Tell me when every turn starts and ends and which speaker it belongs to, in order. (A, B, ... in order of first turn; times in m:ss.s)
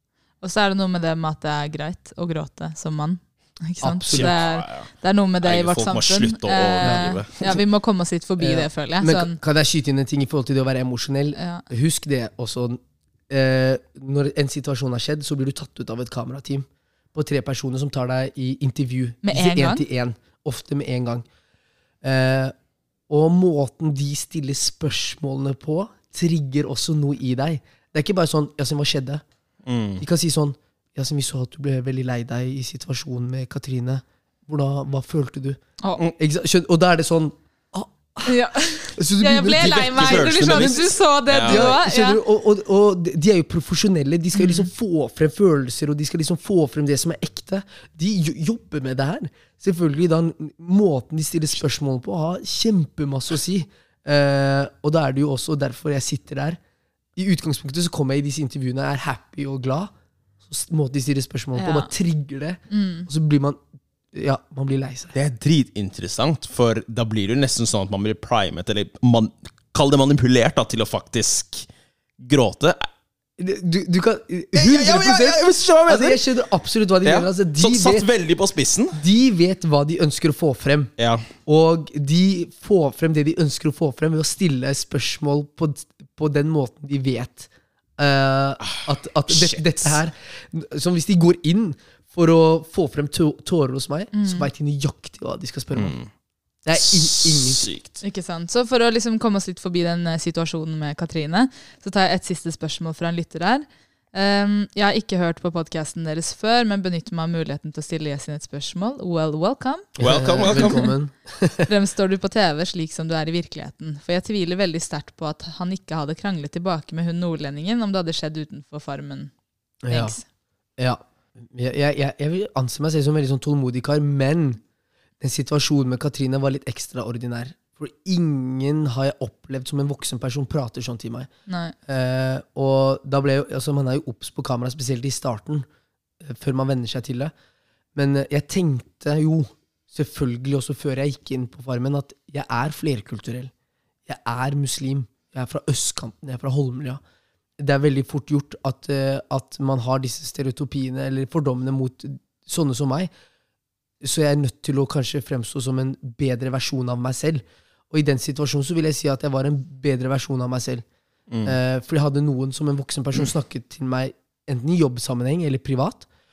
0:00.4-0:09.4 A
0:03.8-0:04.4 B
0:04.1-0:04.9 C
0:05.4-0:07.5 C
0:06.8-0:07.6 B
0:08.4-0:21.2 B
0:11.4-0:11.6 A
0:19.2-0:19.8 A
0:22.0-0:22.5 B
0:23.1-0:29.2 B
0:29.6-0:30.0 C
0:30.0-0:35.6 B
0:36.2-0:56.6 B
0:38.2-0:42.2 A
0:39.6-0:41.7 C
0:44.3-0:44.7 A
0:57.2-0:59.9 B
1:00.4-1:03.6 B
1:01.6-1:01.9 A
1:02.7-1:03.1 A
1:04.1-1:05.1 B
1:05.1-1:11.7 C
1:12.2-1:12.8 C
1:13.4-1:18.1 B
1:14.5-1:16.2 C
1:17.0-1:19.0 C
1:18.9-1:20.9 B
1:21.0-1:21.3 C
1:21.4-1:35.9 B
1:28.7-1:29.9 C
1:34.1-1:34.5 A
1:35.7-1:36.1 C
1:36.6-1:37.7 B
1:36.8-1:38.0 C
1:38.0-1:49.9 A
1:50.0-1:51.7 B
1:50.0-1:50.9 C
1:50.5-1:50.9 A
1:51.7-1:59.3 A
1:59.8-2:00.2 B
1:59.9-2:00.2 A
2:00.8-2:04.6 B
2:05.2-2:11.3 B
2:11.5-2:11.7 A
2:11.9-2:15.7 B
2:16.2-2:17.3 B
2:17.9-2:23.5 B
2:24.0-2:27.0 B
2:27.6-2:33.1 B
2:34.0-2:40.8 B
2:41.4-2:46.1 B